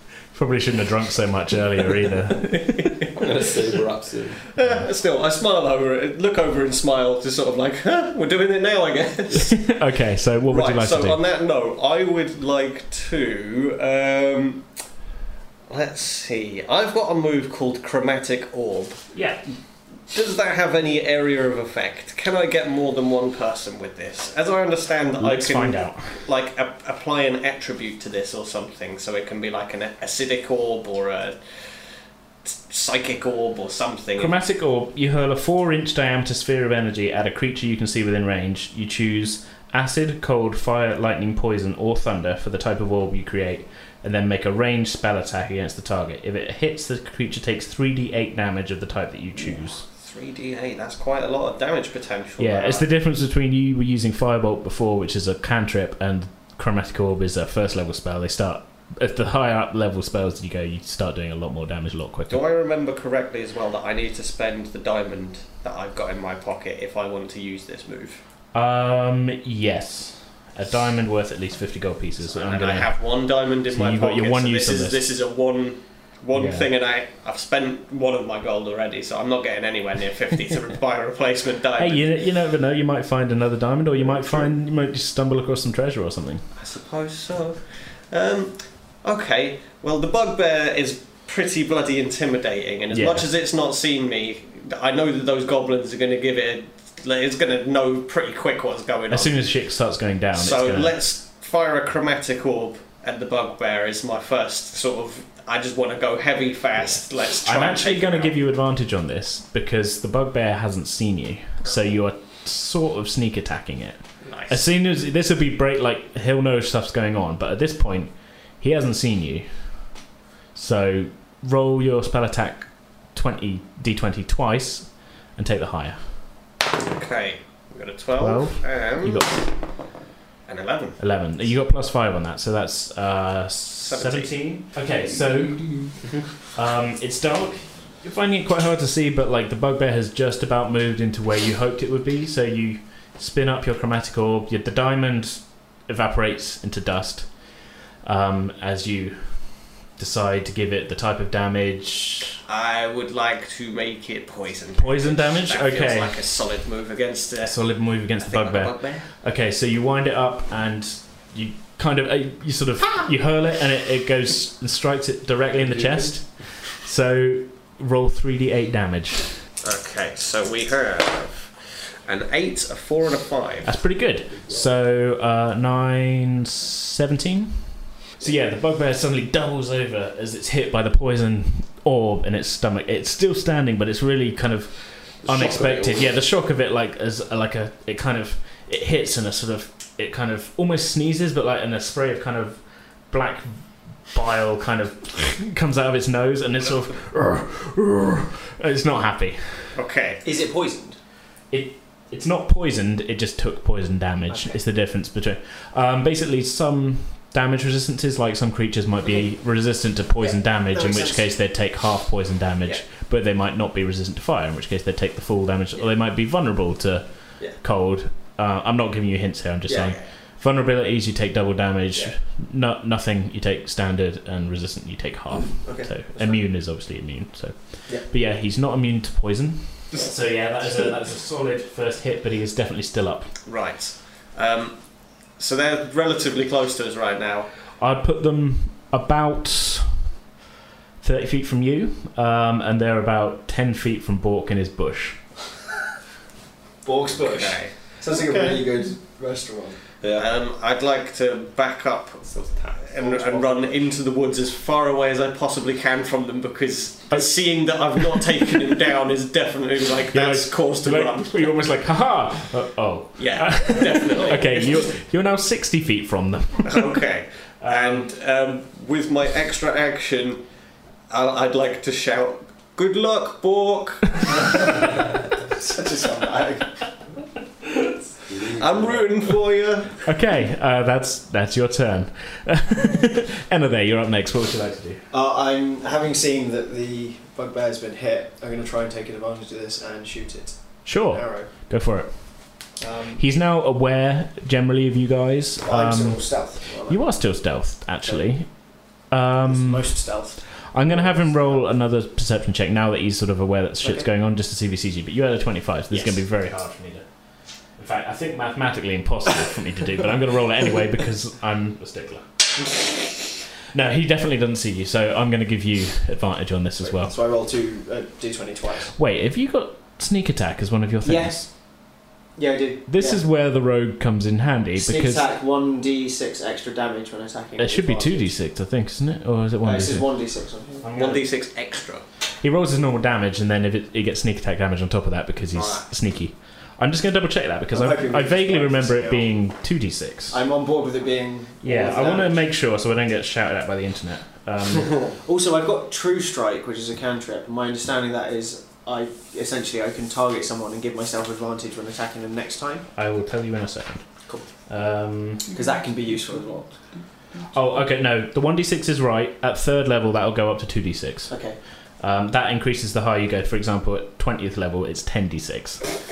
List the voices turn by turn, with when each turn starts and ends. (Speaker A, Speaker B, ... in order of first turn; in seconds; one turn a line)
Speaker A: 0.3-3.1
Speaker B: 2.4-3.1
Speaker C: 3.1-4.5
Speaker B: 4.5-9.8
Speaker A: 4.6-4.9
Speaker A: 9.3-11.2
Speaker B: 10.5-14.7
Speaker B: 15.7-19.1
Speaker A: 19.1-19.4
Speaker B: 20.1-31.8
Speaker A: 25.2-26.2
Speaker B: 32.4-34.4
Speaker A: 34.2-49.8
Speaker B: 49.4-52.9
Speaker A: 52.4-62.4
Speaker B: 62.3-68.2
Speaker A: 68.5-73.0
Speaker B: 72.2-82.3
Speaker A: 73.7-75.0
Speaker A: 76.3-76.7
Speaker A: 81.8-86.5
Speaker B: 84.0-84.5
Speaker B: 86.5-99.5
Speaker A: 92.9-93.3
Speaker A: 99.1-101.0
Speaker B: 100.3-108.3
Speaker A: 107.5-120.0
Speaker B: 114.2-114.6
Speaker A: 120.5-126.2
Speaker B: 126.9-129.3
Speaker A: 128.2-129.6
Speaker B: 130.5-131.0
Speaker A: 131.0-152.4
Speaker B: 133.8-134.4
Speaker C: 135.7-136.2
Speaker B: 152.5-159.1
Speaker A: 154.8-156.2
Speaker A: 157.4-169.4
Speaker C: 165.6-166.2
Speaker B: 169.6-173.8
Speaker A: 173.6-199.8
Speaker C: 185.2-186.2
Speaker B: 199.8-200.2
Speaker D: 200.2-201.0
Speaker A: 201.5-233.3
Speaker D: 204.3-204.6
Speaker D: 210.2-211.3
Speaker D: 219.7-219.9
Speaker D: 225.3-226.5
Speaker B: 233.4-237.5
Speaker A: 237.8-240.1
Speaker A: 241.0-245.3
Speaker D: 246.8-249.8
Speaker B: 247.2-248.6
Speaker C: 250.0-250.3
Speaker B: 250.1-261.6
Speaker C: 252.2-253.7
Speaker A: 257.1-258.3
Speaker A: 260.1-267.0
Speaker B: 263.2-264.8
Speaker B: 266.6-270.4
Speaker A: 267.6-268.1
Speaker B: 271.1-274.9
Speaker D: 275.5-276.7
Speaker C: 278.2-279.1
Speaker B: 278.5-280.1
Speaker A: 280.0-285.0
Speaker D: 285.1-291.5
Speaker A: 290.9-312.3
Speaker D: 292.8-293.2
Speaker D: 295.6-297.0
Speaker D: 298.0-298.3
Speaker D: 299.5-301.7
Speaker D: 303.8-304.1
Speaker A: 313.7-317.1
Speaker D: 316.8-319.0
Speaker A: 318.9-321.5
Speaker D: 321.0-321.6
Speaker D: 322.4-323.2
Speaker A: 322.9-325.3
Speaker D: 324.8-328.4
Speaker A: 327.6-330.1
Speaker D: 329.6-330.9
Speaker A: 330.8-331.2
Speaker B: 330.9-332.1
Speaker A: 332.4-340.4
Speaker D: 337.7-339.3
Speaker D: 340.3-342.4
Speaker A: 341.6-345.1
Speaker D: 345.1-352.9
Speaker A: 352.9-354.1
Speaker A: 354.7-355.5
Speaker D: 355.5-356.8
Speaker A: 357.5-361.4
Speaker D: 361.3-361.6
Speaker A: 362.0-365.8